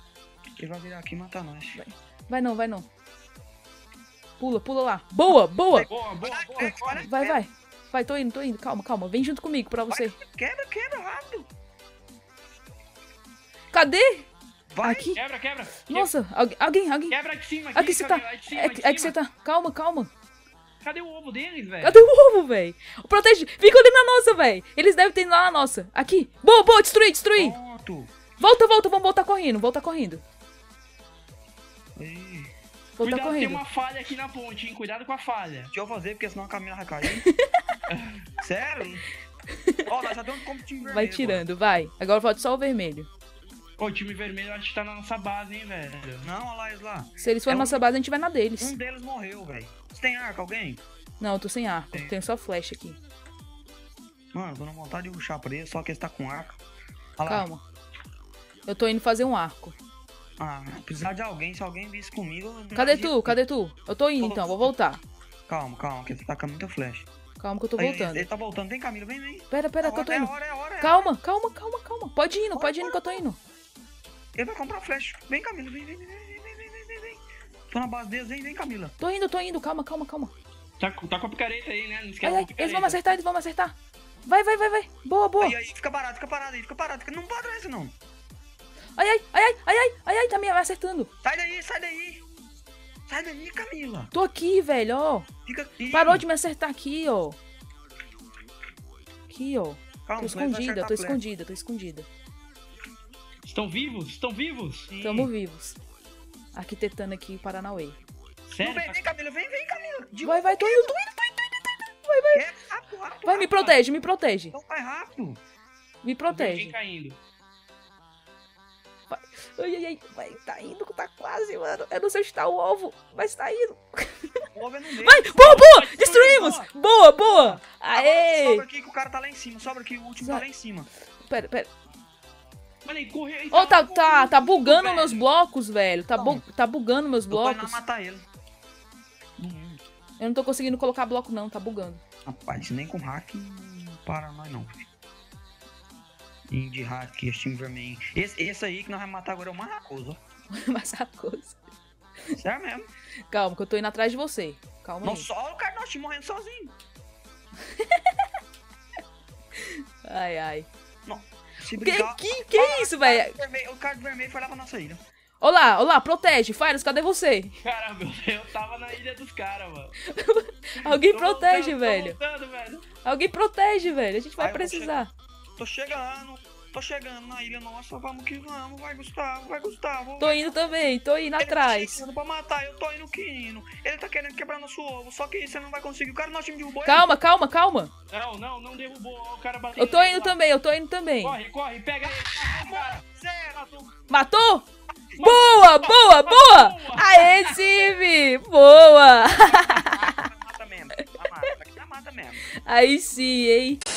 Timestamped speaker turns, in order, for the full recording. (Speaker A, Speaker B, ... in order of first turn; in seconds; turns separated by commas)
Speaker A: 0.6-1.8, Speaker B: 1.8-2.9, Speaker B: 4.4-5.9, Speaker A: 5.7-7.4, Speaker C: 5.9-7.1, Speaker B: 7.0-10.2, Speaker A: 9.9-11.5, Speaker B: 13.7-14.3, Speaker A: 14.7-15.1, Speaker B: 14.8-15.2, Speaker C: 15.2-16.1, Speaker B: 15.9-17.2, Speaker C: 17.1-19.1, Speaker B: 17.7-20.1, Speaker C: 20.8-22.1, Speaker B: 21.8-27.6, Speaker A: 27.4-28.1, Speaker B: 28.4-30.2, Speaker A: 32.0-32.5, Speaker B: 33.0-33.6, Speaker C: 33.0-35.7, Speaker A: 35.7-37.3, Speaker B: 37.1-37.4, Speaker C: 37.9-38.2, Speaker A: 38.4-39.0, Speaker A: 39.9-41.5, Speaker B: 40.9-43.1, Speaker C: 43.8-46.3, Speaker A: 46.2-47.8, Speaker B: 47.2-48.8, Speaker A: 48.6-50.8, Speaker B: 51.2-53.0, Speaker A: 54.3-56.6, Speaker A: 57.2-57.5, Speaker B: 57.2-57.6, Speaker B: 58.7-59.8, Speaker A: 60.4-63.4, Speaker B: 62.7-65.0, Speaker A: 64.2-64.7, Speaker A: 65.5-67.1, Speaker B: 67.4-68.3, Speaker A: 67.8-71.2, Speaker B: 69.5-73.4, Speaker A: 72.5-73.2, Speaker A: 74.3-79.0, Speaker B: 79.0-80.3, Speaker C: 80.8-83.0, Speaker B: 82.2-83.8, Speaker B: 84.3-85.6, Speaker A: 85.4-87.9, Speaker B: 89.0-91.1, Speaker A: 91.2-92.2, Speaker A: 93.1-94.1, Speaker B: 94.1-95.3, Speaker A: 95.5-96.2, Speaker B: 95.9-97.4, Speaker B: 99.3-102.1, Speaker A: 100.1-101.2, Speaker C: 103.5-104.9, Speaker A: 104.9-105.3, Speaker B: 105.0-105.8, Speaker B: 106.5-108.0, Speaker C: 108.5-109.0, Speaker A: 108.6-111.7, Speaker B: 110.2-111.0, Speaker B: 112.1-112.4, Speaker A: 112.3-113.8, Speaker B: 113.2-114.5, Speaker A: 114.5-115.4, Speaker B: 116.0-116.8, Speaker C: 116.3-117.2, Speaker B: 119.1-124.4, Speaker A: 124.5-126.7, Speaker B: 125.0-128.7, Speaker C: 125.4-126.2, Speaker A: 127.2-130.9, Speaker B: 130.2-130.4, Speaker B: 131.2-131.7, Speaker C: 132.8-135.3, Speaker B: 133.5-137.8, Speaker A: 136.2-136.4, Speaker A: 137.3-138.3, Speaker A: 139.4-139.8, Speaker B: 140.2-142.0, Speaker A: 142.3-144.8, Speaker A: 146.5-150.2, Speaker B: 150.5-151.6, Speaker A: 152.3-152.9, Speaker B: 153.3-155.3, Speaker A: 155.0-156.7, Speaker B: 157.7-158.1, Speaker B: 159.6-160.7, Speaker A: 161.1-165.0, Speaker B: 161.8-163.4, Speaker B: 165.4-167.6, Speaker C: 167.6-170.0, Speaker B: 170.1-172.2, Speaker C: 170.8-172.8, Speaker B: 173.0-175.1, Speaker A: 174.4-175.1, Speaker A: 175.6-180.6, Speaker B: 180.2-182.0, Speaker A: 181.4-187.1, Speaker B: 186.8-187.9, Speaker C: 188.1-190.4, Speaker B: 189.8-191.4, Speaker C: 191.2-193.0, Speaker A: 192.4-194.0, Speaker B: 194.1-194.7, Speaker C: 195.2-197.8, Speaker B: 195.2-200.3, Speaker A: 199.3-202.5, Speaker B: 202.7-203.8